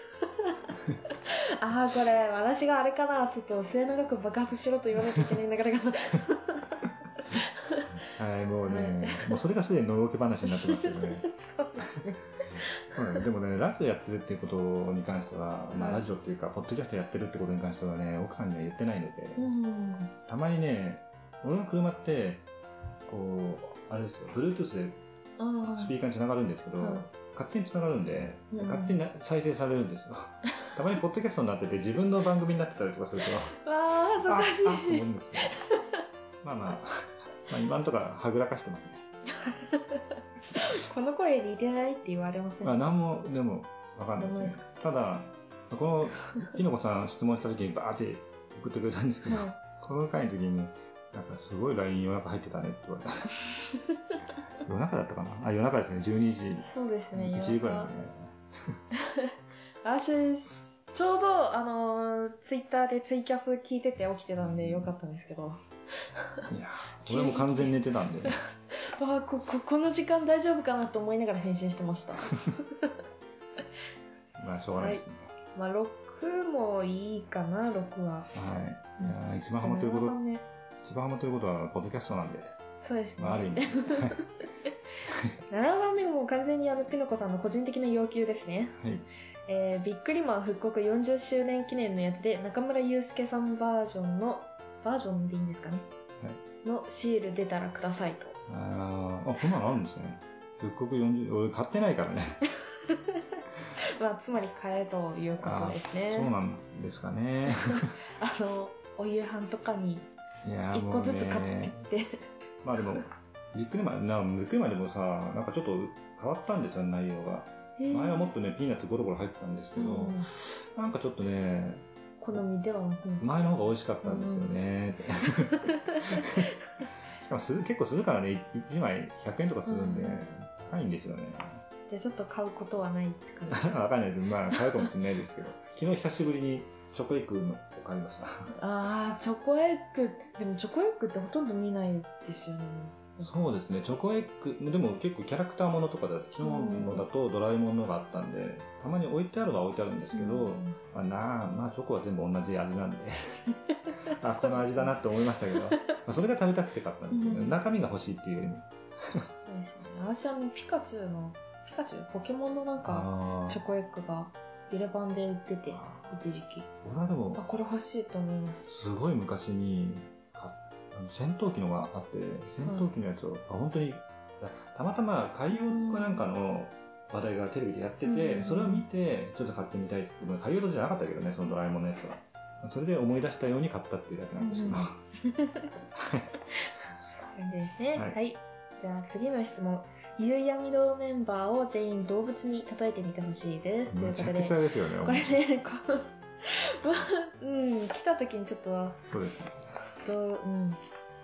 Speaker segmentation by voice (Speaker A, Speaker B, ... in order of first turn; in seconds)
Speaker A: 0.2-0.6, 1.2-7.9, 8.7-9.4, 10.5-12.8, 15.7-16.0, 19.4-20.1, 25.4-25.9, 26.8-27.0, 28.5-29.0, 33.6-36.0, 39.3-42.9, 44.2-44.6, 49.3-49.5, 53.7-54.2, 56.6-57.9, 58.9-59.3, 59.8-65.6, 66.2-66.5, 67.0-72.9, 74.8-78.3, 79.0-80.4, 82.8-84.3, 85.5-88.8, 89.5-95.9, 96.6-98.3, 102.8-106.3, 107.5-110.0, 110.7-112.2, 117.8-118.3, 119.7-120.3, 122.2-123.2, 124.0-124.5, 125.5-126.5, 129.7-130.2, 131.9-133.8, 134.5-134.9, 138.6-143.4, 146.4-147.1, 150.1-150.8, 153.8-154.9, 157.1-157.6, 159.4-166.7, 167.3-168.7, 175.6-176.2, 178.1-178.8, 184.4-185.7, 187.3-199.0, 200.0-200.8
Speaker B: 0.7-1.0, 8.1-11.3, 12.6-19.5, 20.3-22.4, 23.1-25.0, 25.7-33.5, 34.2-35.6, 36.4-39.0, 42.6-53.3, 54.6-58.8, 64.4-64.9, 66.5-68.3, 74.4-75.3, 78.3-80.2, 80.8-82.5, 83.2-84.2, 88.8-89.1, 98.5-102.4, 105.4-107.9, 110.4-111.8, 112.6-122.4, 123.2-131.6, 133.5-138.5, 143.2-153.4, 154.0-159.2, 162.8-163.6, 165.7-166.1, 166.8-167.4, 168.7-185.0, 185.9-186.3, 193.9-195.4, 199.1-199.6